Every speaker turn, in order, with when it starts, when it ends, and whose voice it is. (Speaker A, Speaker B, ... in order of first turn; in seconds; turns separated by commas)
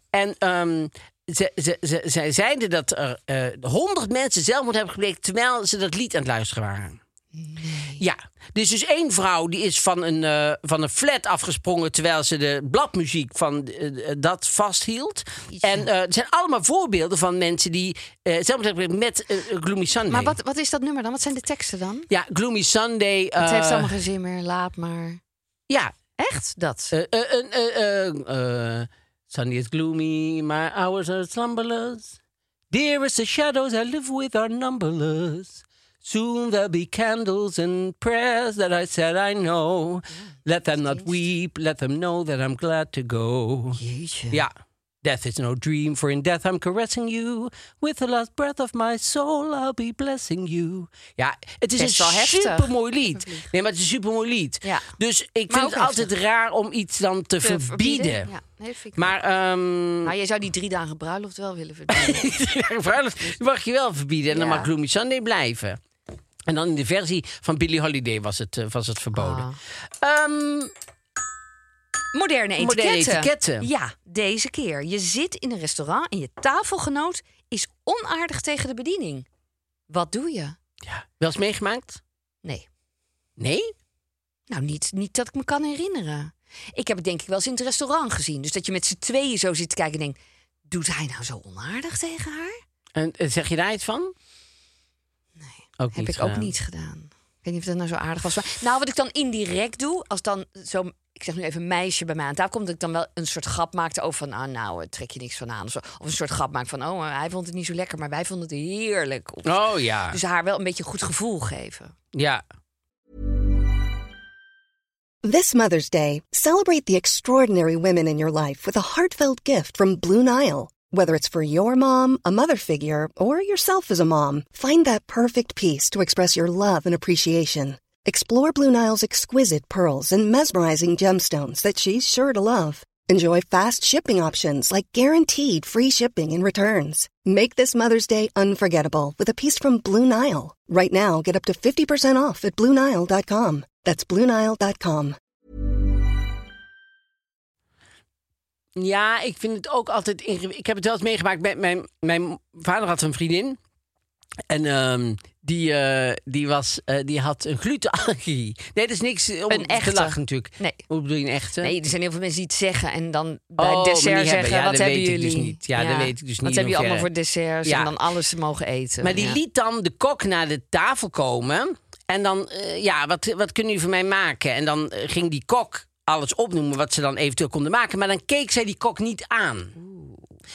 Speaker A: 0.1-7.0, Speaker B: 7.3-8.0, Speaker A: 8.0-20.3, Speaker B: 15.5-15.9, Speaker B: 20.1-22.1, Speaker A: 22.1-23.9, Speaker B: 23.4-25.2, Speaker B: 26.2-26.9, Speaker A: 26.9-32.1, Speaker A: 32.7-43.8, Speaker B: 40.1-41.2, Speaker B: 43.8-44.4, Speaker A: 45.0-58.3, Speaker B: 51.8-53.5, Speaker B: 54.6-54.9, Speaker B: 55.5-56.1, Speaker B: 57.4-59.1, Speaker A: 59.0-60.1, Speaker B: 60.0-62.3, Speaker A: 61.9-65.8, Speaker B: 64.3-64.7, Speaker A: 66.5-69.5, Speaker B: 69.1-69.6, Speaker A: 70.0-70.7, Speaker B: 72.1-79.2, Speaker A: 72.6-73.7, Speaker B: 79.9-80.6, Speaker A: 80.8-82.0, Speaker A: 83.4-83.7, Speaker B: 84.5-90.2, Speaker B: 90.7-92.6, Speaker A: 93.0-94.1, Speaker B: 95.4-109.5, Speaker A: 95.8-96.5, Speaker A: 109.4-110.2, Speaker B: 110.1-111.9, Speaker A: 112.1-112.4, Speaker C: 115.2-145.2, Speaker A: 148.8-153.6, Speaker A: 154.5-161.7, Speaker B: 159.5-160.8, Speaker B: 161.6-169.4, Speaker A: 163.6-167.1, Speaker A: 167.6-167.9, Speaker A: 169.0-179.8, Speaker B: 179.8-180.2